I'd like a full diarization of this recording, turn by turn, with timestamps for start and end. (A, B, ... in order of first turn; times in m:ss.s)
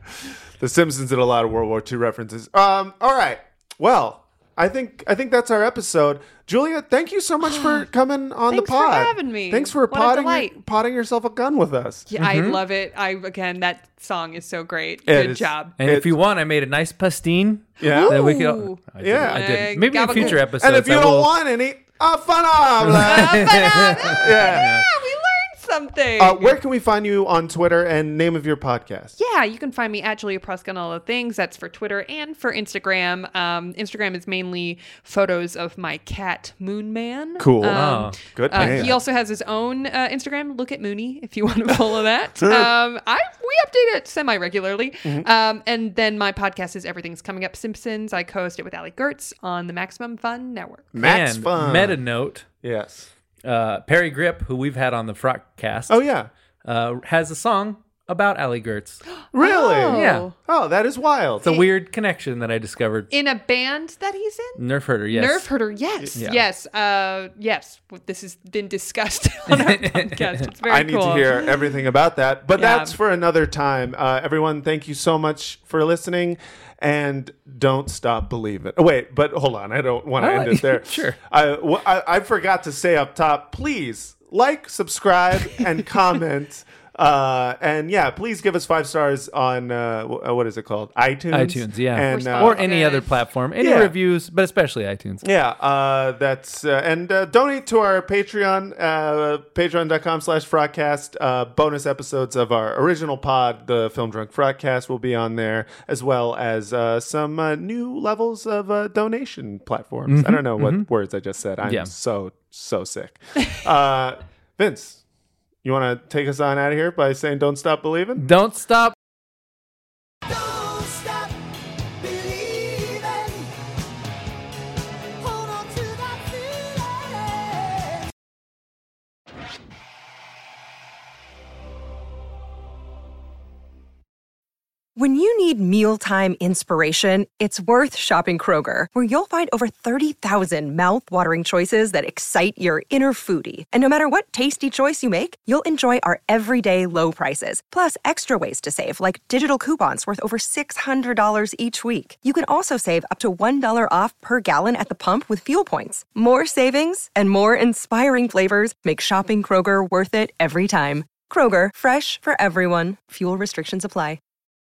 0:00.6-0:12.1 A
0:07.4-0:07.9 B
0:08.5-0:10.6 B
0:12.1-0:15.7 B
0:12.2-0:12.6 C
0:15.0-0:16.1 A
0:15.8-0:21.3 C
0:17.8-0:18.2 A
0:17.8-0:20.4 B
0:19.0-0:24.8 A
0:22.8-0:24.9 C
0:23.0-0:26.6 B
0:26.2-0:29.1 A
0:29.2-0:50.9 B
0:37.4-0:39.0 A
0:37.7-0:39.0 C
0:42.4-0:42.7 A
0:50.9-0:52.0 A
0:51.0-0:52.4 C
0:52.6-0:53.1 A
0:53.4-0:56.0 C
0:55.9-0:56.3 A
0:56.6-0:59.0 C
0:59.3-1:01.6 A
0:59.4-1:00.3 B
0:59.9-1:00.3 C
1:01.4-1:03.1 C
1:03.1-1:11.5 B
1:04.6-1:05.5 C
1:06.2-1:06.4 C
1:09.5-1:10.4 C
1:10.7-1:32.7 A
1:12.6-1:13.0 B
1:20.2-1:21.2 C
1:31.3-1:35.2 C
1:32.1-1:33.1 B
1:33.6-1:34.0 A
1:35.2-1:55.0 A
1:50.1-1:50.9 C
1:51.6-1:51.9 C
1:55.6-1:58.2 A
1:58.2-1:59.0 C
2:15.0-2:44.2 D